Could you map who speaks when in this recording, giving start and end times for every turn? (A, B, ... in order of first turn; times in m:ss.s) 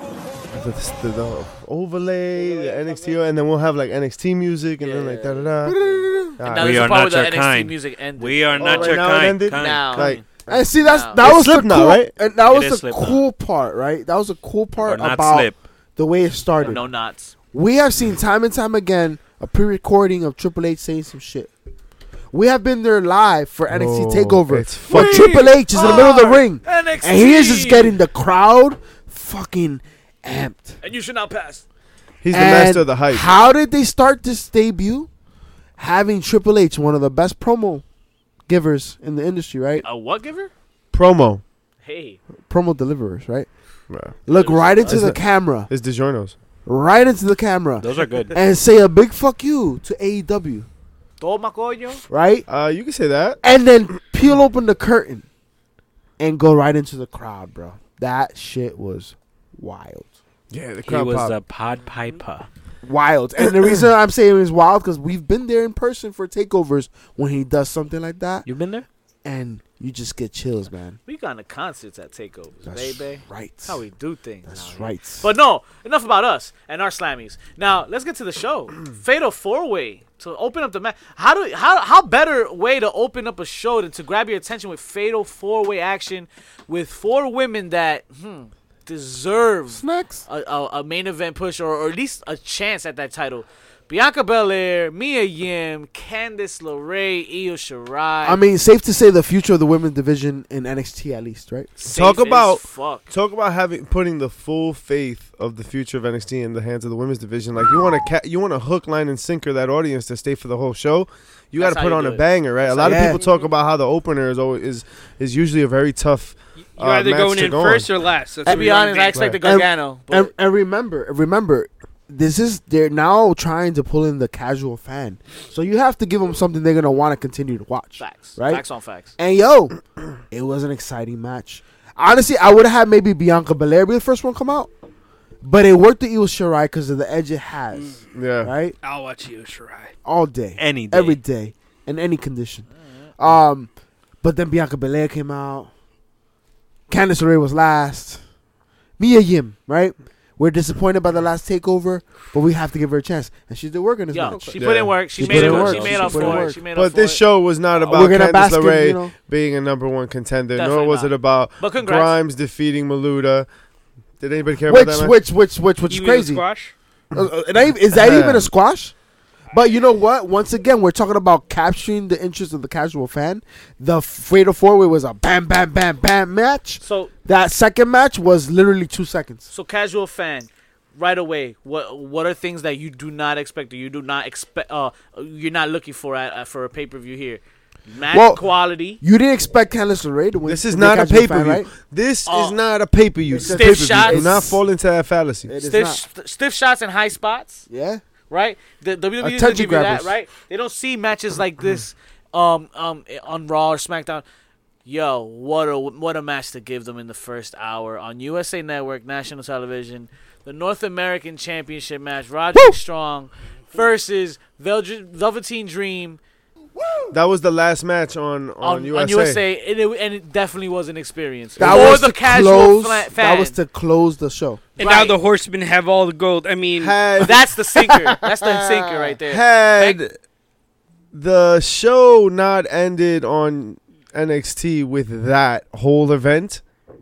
0:00.5-0:05.8 A
0:02.4-0:03.1 B
0:04.8-0:05.6 C
0:05.6-0:06.4 D
0:06.4-0:06.9 A
0:06.4-0:10.2 C
0:06.6-0:10.2 E
0:08.6-0:10.2 A
0:10.5-0:16.8 D
0:10.8-0:11.2 C
0:11.2-0:12.1 A
0:12.5-0:13.2 E
0:14.8-0:15.6 E
0:16.6-0:17.3 C
0:17.5-0:21.5 D
0:22.3-0:30.8 D
0:23.7-0:25.3 A
0:24.9-0:28.0 C
0:30.8-0:31.6 C
0:32.2-0:33.3 A
0:32.3-0:35.1 D
0:35.8-0:37.8 D
0:38.5-0:39.8 D
0:39.8-0:40.5 C
0:40.9-0:41.4 A
0:41.8-0:42.2 C
0:42.5-0:43.5 D
0:43.9-0:44.2 A
0:44.3-0:45.7 D
0:44.3-0:45.0 C
0:44.9-0:46.4 A
0:46.7-0:50.7 D
0:47.8-0:48.4 E
0:51.2-0:52.0 C
0:52.1-0:52.5 D
0:52.5-0:53.4 A
0:53.4-0:55.3 D
0:56.2-1:00.1 D
1:00.5-1:01.4 A
1:00.8-1:02.5 E
1:02.8-1:08.5 D
1:08.4-1:08.9 E
1:09.2-1:11.0 D
1:11.1-1:38.4 C
1:12.7-1:13.8 D
1:14.5-1:15.2 D
1:29.7-1:30.3 D
1:38.2-1:41.7 D
1:41.8-1:43.1 C
1:41.9-1:57.9 A
1:51.6-1:53.2 C
1:52.8-1:53.2 D
1:56.8-1:59.2 B
1:58.4-2:00.3 C
1:58.5-2:08.6 D
2:08.0-2:09.2 C
2:09.2-2:09.8 D
2:10.3-2:14.7 D
2:15.4-2:18.8 D
2:17.7-2:18.0 B
2:18.1-2:18.5 A
2:18.8-2:20.0 B
2:20.0-2:22.7 D
2:20.6-2:21.2 E
2:22.8-2:23.1 C
2:23.2-2:23.7 D
2:24.2-2:25.7 D
2:26.9-2:28.2 D
2:29.0-2:34.6 D
2:34.1-2:38.2 C
2:34.6-2:35.6 A
2:35.2-2:36.6 D
2:35.2-2:36.5 E
2:36.7-2:43.5 A
2:37.9-2:39.1 D
2:40.6-2:42.2 C
2:44.2-2:45.2 A
2:44.7-2:46.4 D
2:45.9-2:46.7 B
2:47.1-2:48.9 D
2:47.9-2:48.5 A
2:49.5-2:59.5 D
2:56.8-2:57.1 C
2:59.5-3:09.0 C
3:08.1-3:08.4 D
3:09.0-3:11.7 D
3:10.5-3:15.5 A
3:12.3-3:12.6 C
3:13.3-3:14.6 D
3:13.4-3:14.3 C
3:15.5-3:16.0 D
3:15.6-3:17.7 C
3:17.7-3:18.0 D
3:18.3-3:24.2 C
3:19.2-3:20.1 D
3:24.8-3:36.2 C
3:37.1-3:39.4 A
3:38.6-3:43.6 C
3:41.6-3:44.7 D
3:41.6-3:42.0 A
3:44.8-3:47.0 B
3:44.8-3:45.2 C
3:46.8-3:47.5 A
3:47.2-3:50.0 C
3:49.2-3:50.2 A
3:51.1-3:56.6 A